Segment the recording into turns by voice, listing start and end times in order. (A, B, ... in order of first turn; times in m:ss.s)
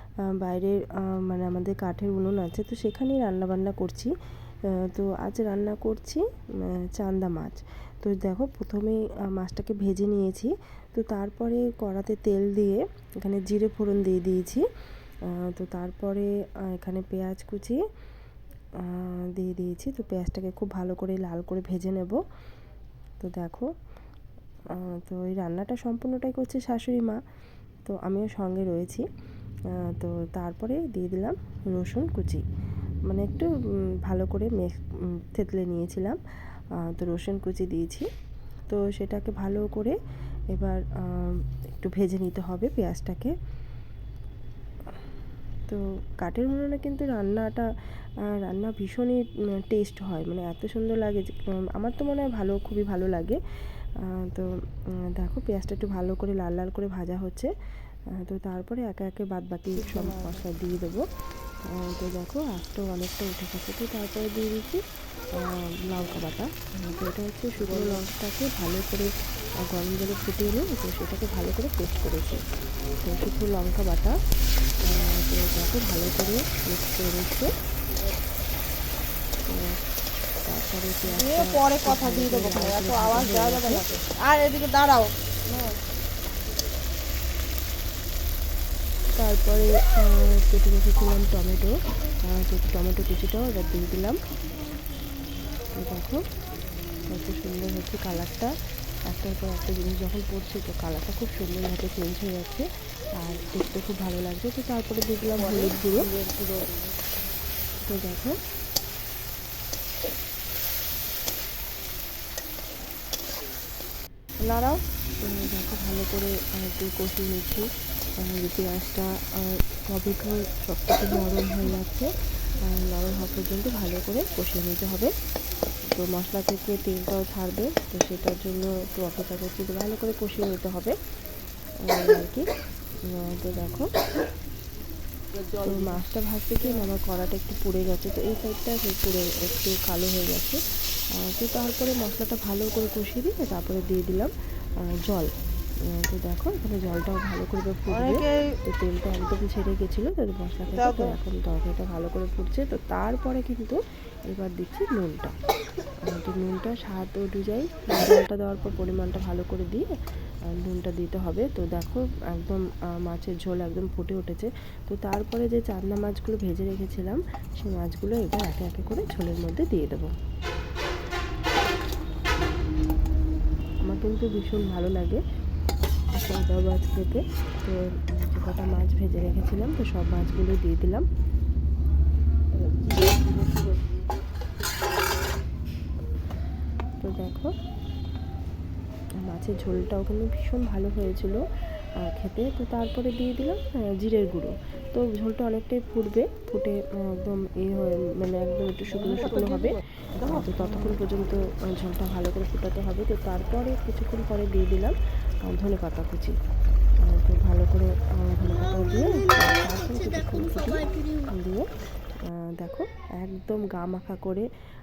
0:00.2-0:04.1 A
0:04.7-0:14.7 A
0:15.3-0:17.8 A
0:18.8-0:22.2 A
0:23.2-0:23.7 A
0:24.7-0:27.2 A
0:27.9-0:29.1 A
0:29.8-0:32.4 A
0:33.1-0:33.5 A
0:34.1-0:36.2 A
0:36.8-0:38.1 A
0:38.7-0:40.0 A
0:40.5-0:43.3 A
0:45.7-0:47.7 A
0:48.2-0:53.4 A
0:54.0-0:54.5 A
0:55.1-0:57.5 A
0:58.1-1:01.0 A
0:59.8-1:00.4 B
1:01.6-1:04.8 A
1:05.4-1:09.1 A
1:09.7-1:12.4 A
1:13.0-1:14.2 A
1:14.8-1:17.5 A
1:19.5-1:19.8 A
1:20.5-1:23.8 A
1:21.1-1:25.7 B
1:29.2-1:34.2 A
1:35.8-1:36.2 A
1:37.1-1:38.5 A
1:39.1-1:46.1 A
1:45.5-1:47.0 B
1:47.9-1:48.4 A
1:54.5-1:54.8 B
1:55.2-2:02.1 A
2:02.6-2:05.1 A
2:05.9-2:11.0 A
2:11.8-2:12.5 A
2:13.2-2:13.9 A
2:15.6-2:20.6 A
2:21.1-2:24.3 A
2:24.9-2:25.3 A
2:25.9-2:35.4 A
2:27.9-2:28.5 B
2:30.7-2:31.2 B
2:36.1-2:39.9 A
2:40.5-2:50.1 A
2:53.8-2:55.2 A
2:56.1-3:01.1 A
3:07.0-3:07.5 A
3:09.3-3:11.4 A
3:12.0-3:25.0 A
3:25.5-3:26.4 A
3:27.0-3:31.7 A
3:32.2-3:34.5 A